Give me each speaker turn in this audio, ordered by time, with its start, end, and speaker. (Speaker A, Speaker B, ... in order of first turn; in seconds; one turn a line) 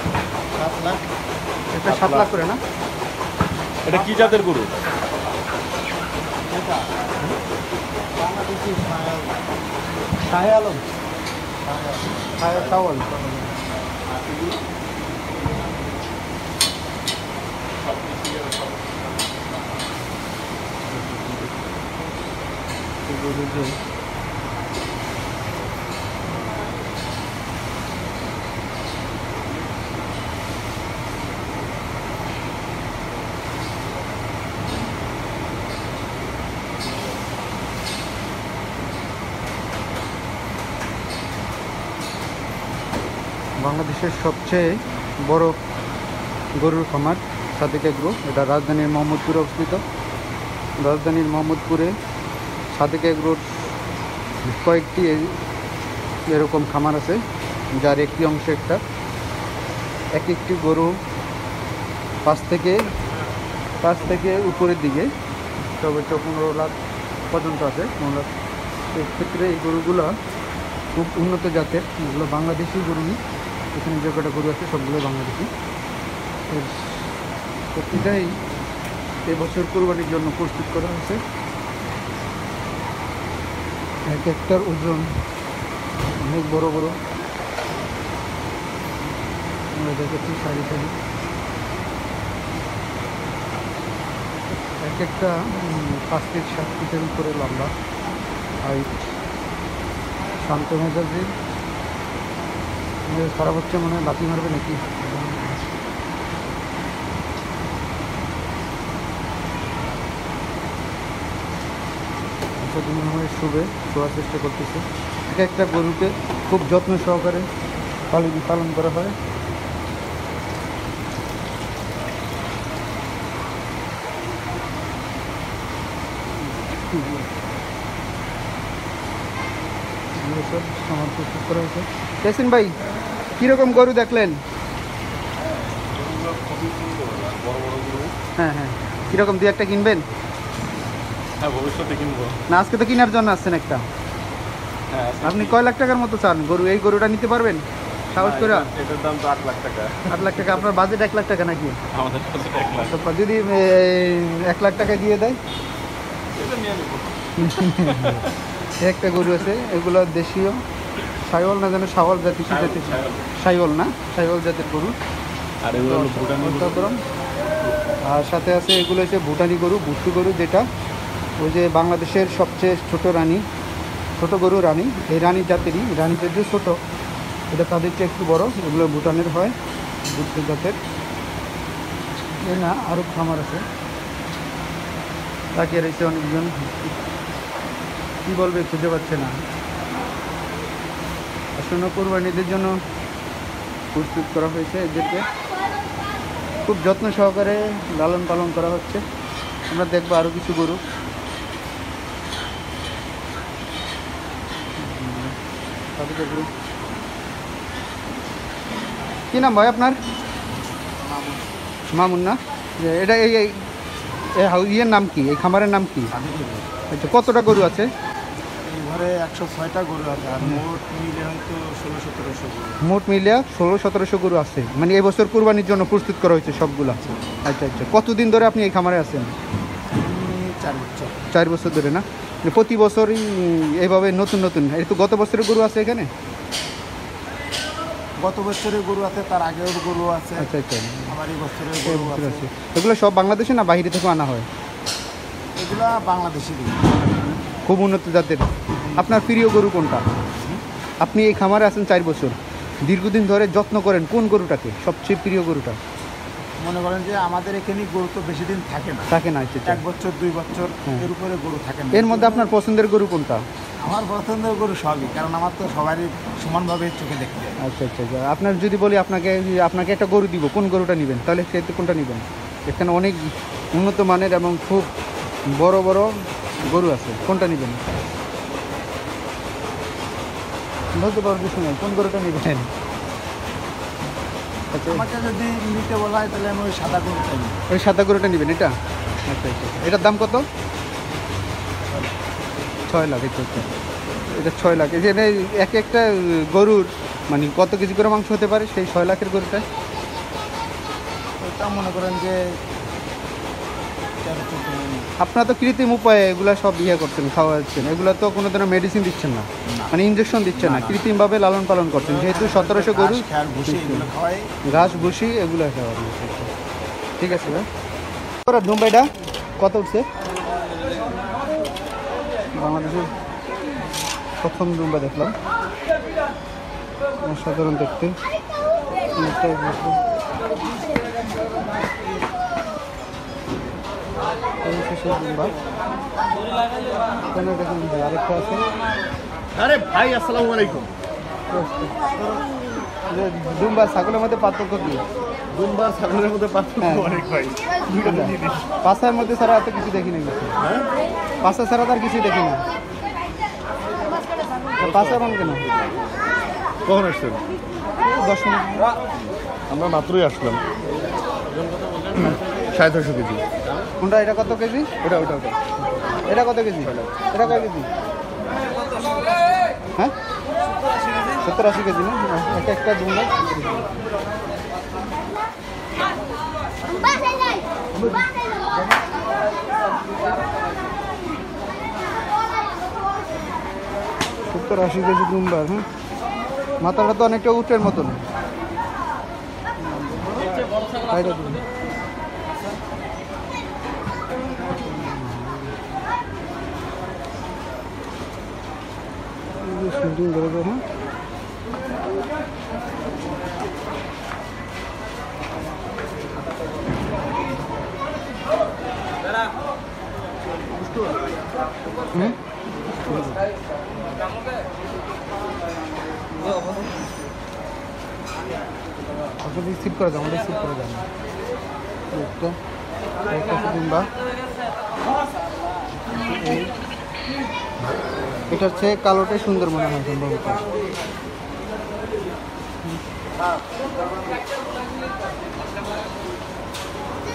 Speaker A: 0.5-1.0
Speaker B: 1.7-2.6
Speaker C: 1.8-2.3
Speaker C: 3.8-4.7
Speaker A: 3.9-4.5
Speaker A: 6.4-6.9
Speaker A: 8.1-9.4
Speaker A: 10.3-10.8
Speaker A: 11.6-12.1
Speaker B: 12.4-13.4
Speaker C: 14.1-14.6
Speaker C: 17.8-19.2
Speaker B: 20.9-21.5
Speaker B: 23.1-23.8
Speaker B: 43.6-44.7
Speaker B: 45.2-45.6
Speaker B: 46.6-49.8
Speaker B: 50.8-51.9
Speaker B: 52.7-53.6
Speaker B: 54.4-55.3
Speaker B: 56.3-57.2
Speaker B: 57.8-58.8
Speaker B: 60.1-60.9
Speaker B: 62.2-62.8
Speaker B: 63.8-65.1
Speaker B: 65.8-66.7
Speaker B: 67.3-68.3
Speaker B: 68.9-70.1
Speaker B: 71.0-73.2
Speaker B: 73.7-75.5
Speaker B: 76.5-77.1
Speaker B: 77.7-78.4
Speaker B: 79.3-81.2
Speaker B: 84.1-85.1
Speaker B: 86.2-87.0
Speaker B: 89.7-91.0
Speaker B: 94.8-97.7
Speaker B: 98.6-99.1
Speaker B: 100.4-101.3
Speaker B: 103.1-105.6
Speaker B: 112.6-117.5
Speaker B: 118.1-119.1
Speaker B: 126.4-127.3
Speaker B: 130.2-132.7
Speaker B: 133.4-134.4
Speaker C: 135.8-138.1
Speaker B: 138.4-140.1
Speaker C: 141.4-142.4
Speaker B: 142.5-143.8
Speaker C: 144.9-145.6
Speaker B: 145.2-148.7
Speaker C: 148.1-150.7
Speaker B: 150.1-151.8
Speaker C: 151.9-152.9
Speaker B: 152.8-155.4
Speaker C: 156.3-158.3
Speaker B: 157.4-158.3
Speaker B: 158.8-160.6
Speaker B: 161.3-164.9
Speaker C: 162.5-163.3
Speaker C: 165.6-166.9
Speaker B: 165.8-167.0
Speaker C: 167.5-167.7
Speaker B: 168.0-170.6
Speaker B: 171.4-173.4
Speaker B: 174.2-176.8
Speaker B: 177.5-179.5
Speaker B: 180.1-180.8
Speaker B: 182.4-183.6
Speaker B: 185.5-186.9
Speaker B: 188.2-189.3
Speaker B: 191.6-192.7
Speaker B: 193.9-195.2
Speaker B: 196.7-199.0
Speaker B: 199.7-200.8
Speaker B: 204.8-205.3
Speaker B: 206.0-206.5
Speaker B: 209.3-210.0
Speaker A: 211.0-211.6
Speaker B: 211.9-213.6
Speaker B: 214.3-216.1
Speaker A: 216.1-216.7
Speaker B: 216.9-217.9
Speaker A: 218.6-222.8
Speaker B: 222.8-229.3
Speaker A: 229.9-231.2
Speaker B: 231.3-236.1
Speaker A: 238.2-240.5
Speaker B: 240.4-241.1
Speaker A: 241.1-242.4
Speaker B: 241.8-244.5
Speaker A: 245.6-247.1
Speaker B: 247.6-250.0
Speaker B: 251.0-255.8
Speaker A: 256.6-259.1
Speaker B: 259.1-259.8
Speaker A: 259.6-262.5
Speaker B: 261.9-263.4
Speaker A: 263.8-267.6
Speaker B: 267.6-274.9
Speaker B: 275.5-276.1
Speaker B: 276.6-277.8
Speaker B: 281.0-282.7
Speaker B: 284.7-285.1
Speaker A: 284.9-287.6
Speaker B: 287.7-288.7
Speaker B: 289.3-290.4
Speaker B: 292.9-293.7
Speaker B: 294.3-299.6
Speaker A: 301.4-302.4
Speaker A: 304.2-305.1
Speaker B: 305.2-314.1
Speaker A: 309.6-309.9
Speaker A: 310.6-311.0
Speaker A: 311.9-315.1
Speaker B: 314.6-316.5
Speaker B: 317.2-317.6
Speaker B: 318.4-319.1
Speaker B: 319.6-320.1
Speaker B: 322.6-323.1
Speaker B: 324.4-325.3
Speaker B: 327.2-328.1
Speaker B: 329.2-330.0
Speaker B: 334.6-335.5
Speaker B: 337.3-338.7
Speaker A: 339.6-340.9
Speaker C: 339.8-340.6
Speaker B: 341.5-342.0
Speaker B: 343.1-345.0
Speaker C: 345.5-348.7
Speaker B: 346.8-347.3
Speaker B: 347.9-350.5
Speaker C: 350.6-350.9
Speaker B: 351.4-352.6
Speaker B: 354.8-355.6
Speaker C: 356.9-357.4
Speaker B: 358.0-358.9
Speaker C: 359.7-360.6
Speaker C: 362.1-363.5
Speaker B: 364.0-365.5
Speaker C: 365.1-365.5
Speaker B: 366.2-367.9
Speaker B: 371.4-373.9
Speaker B: 384.5-385.8
Speaker B: 386.8-388.2
Speaker B: 389.8-391.6
Speaker B: 394.8-395.7
Speaker B: 399.6-400.8
Speaker B: 413.0-413.4
Speaker B: 416.4-416.9
Speaker B: 419.4-421.0
Speaker B: 422.1-422.6
Speaker B: 423.3-424.1
Speaker B: 426.2-426.7
Speaker B: 428.5-430.7